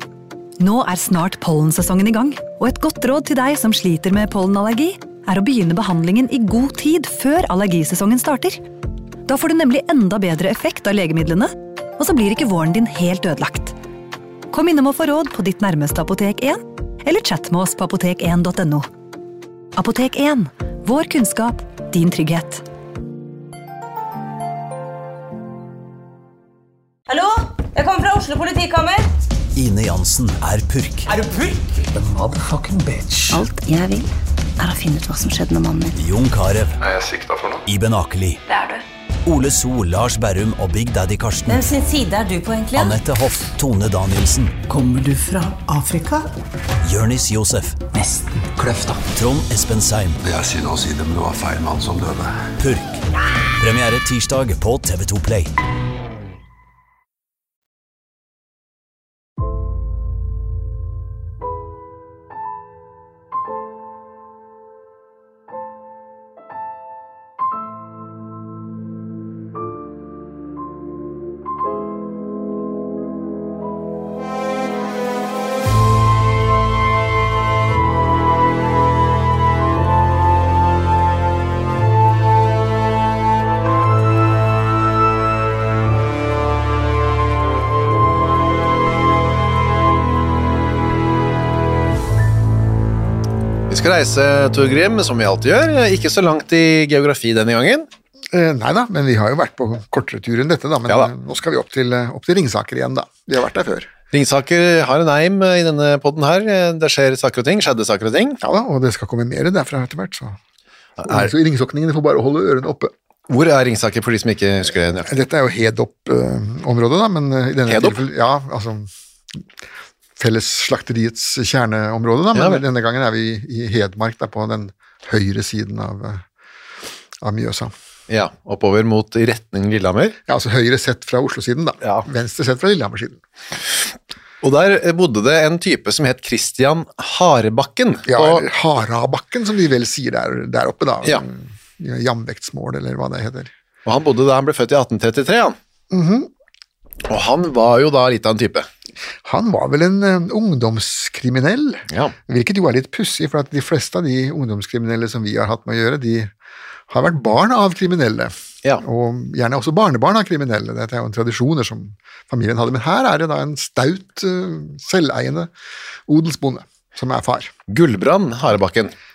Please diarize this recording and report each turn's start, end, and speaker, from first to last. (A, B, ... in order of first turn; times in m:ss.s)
0:00.6-0:08.6 A
0:09.2-0:13.7 A
0:14.5-0:18.9 A
0:19.8-0:22.6 A
0:27.1-0:29.1 B
0:29.5-0:31.1 C
0:31.9-0:33.4 D
0:33.3-0:35.9 E
0:35.9-0:36.8 C
0:36.8-0:37.6 F
0:37.7-0:38.4 C
0:38.5-0:38.8 B
0:39.2-0:41.6 C
0:41.5-0:43.0 B
0:42.7-0:44.6 C
0:44.7-0:46.3 D
0:46.8-0:47.8 C
0:47.9-0:49.0 D
0:49.1-0:50.2 C
0:50.2-0:52.5 F
0:52.6-0:53.0 C
0:53.6-0:55.5 C
1:33.7-1:37.9 G
1:38.3-1:43.9 H
1:44.1-1:48.4 G
1:48.4-1:50.4 H
1:51.0-1:51.3 G
1:51.0-1:52.9 H
1:53.3-1:55.1 G
1:55.0-1:58.9 H
1:57.7-1:58.0 G
2:00.2-2:06.2 H
2:02.3-2:02.6 G
2:07.2-2:07.7 H
2:08.1-2:10.2 G
2:10.3-2:13.2 H
2:14.4-2:18.4 G
2:18.1-2:23.5 H
2:23.8-2:25.6 G
2:25.9-2:26.3 H
2:27.1-2:28.7 G
2:29.2-2:36.3 H
2:31.9-2:32.1 G
2:36.9-2:45.5 H
2:46.1-2:47.5 H
2:47.7-2:48.9 G